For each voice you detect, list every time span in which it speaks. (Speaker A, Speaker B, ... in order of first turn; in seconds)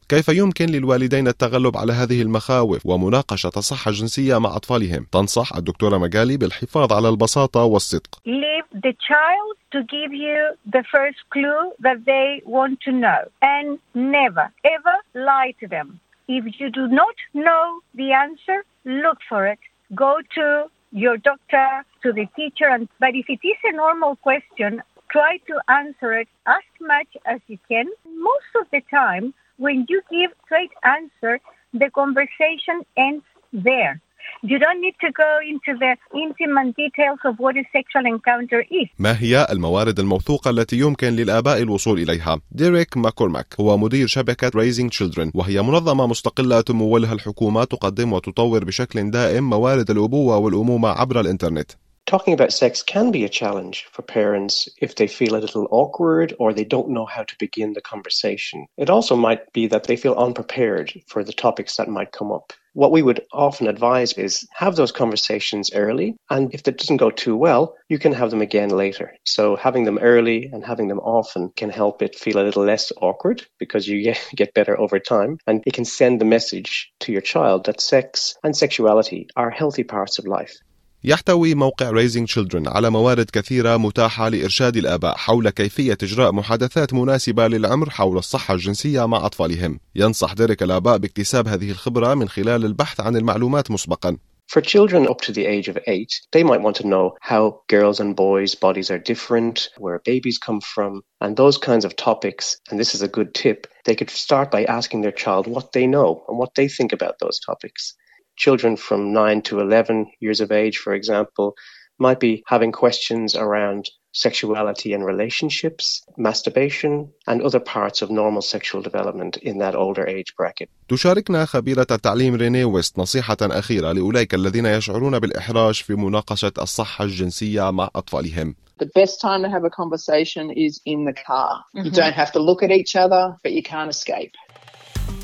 Speaker A: 0.1-8.2, 39.0-51.7, 81.1-94.2, 120.9-128.5
Speaker B: 8.2-38.9
Speaker C: 52.1-80.6, 94.5-120.7
Speaker D: 128.8-134.4